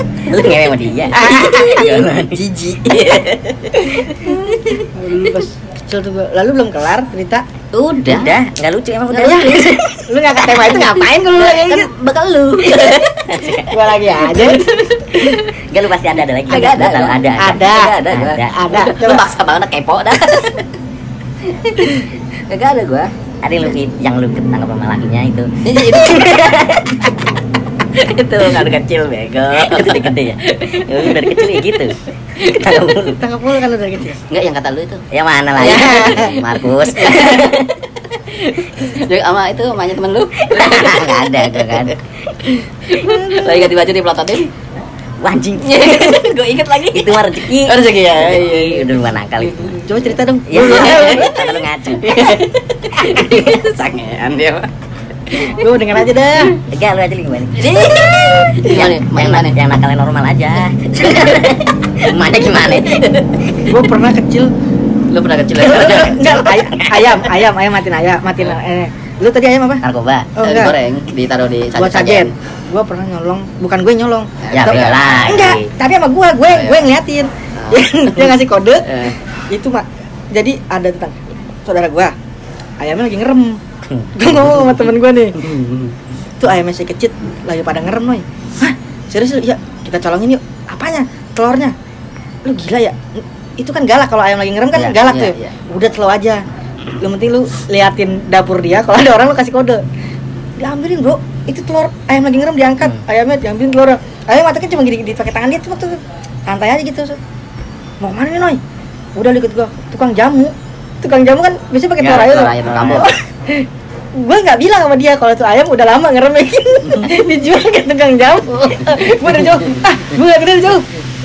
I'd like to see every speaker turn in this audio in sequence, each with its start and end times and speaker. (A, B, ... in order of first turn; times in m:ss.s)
0:00.2-0:02.4 A
0:01.1-0:03.0 B
0:02.8-0:05.4 C
0:04.9-0:07.4 B
0:07.7-0:08.3 C
0:08.1-0:10.9 A
0:09.1-0:11.9 B
0:09.2-0:09.7 C
0:10.8-0:13.5 C
0:12.8-0:13.7 A
0:13.7-0:14.6 B
0:14.2-0:15.5 C
0:15.7-0:18.6 A
0:16.5-0:20.7 C
0:17.4-0:19.3 B
0:21.4-0:23.1 C
0:23.4-0:27.0 A
0:25.6-0:26.8 C
0:28.0-0:31.8 C
0:29.6-0:33.2 A
0:33.2-0:34.2 B
0:34.3-0:35.0 C
0:35.1-0:37.8 A
0:35.6-0:36.3 B
0:35.6-0:36.4 C
0:36.9-0:37.6 C
0:38.3-0:44.5 C
0:40.4-0:42.0 A
0:45.2-0:46.3 A
0:45.6-0:50.0 C
0:46.9-0:49.8 A
0:49.8-0:51.4 B
0:50.5-0:52.2 A
0:50.6-0:51.4 C
0:52.0-0:54.7 C
0:55.5-0:56.5 B
0:56.6-1:03.1 A
0:57.6-0:59.6 C
1:01.0-1:01.5 C
1:02.7-1:03.2 C
1:03.7-1:04.5 B
1:05.1-1:06.6 C
1:05.6-1:09.8 B
1:09.8-1:10.3 A
1:10.4-1:10.8 B
1:10.4-1:12.3 C
1:11.8-1:22.1 B
1:14.4-1:15.6 C
1:14.5-1:15.7 A
1:16.5-1:16.9 C
1:17.6-1:18.3 C
1:18.9-1:19.2 C
1:22.8-1:23.6 B
1:24.1-1:25.4 B
1:25.4-1:25.9 C
1:26.4-1:31.7 B
1:32.4-1:36.4 B
1:35.0-1:35.6 C
1:37.0-1:39.8 B
1:40.6-1:47.2 B
1:48.0-1:48.6 B
1:49.2-2:00.9 B
1:52.0-1:53.1 C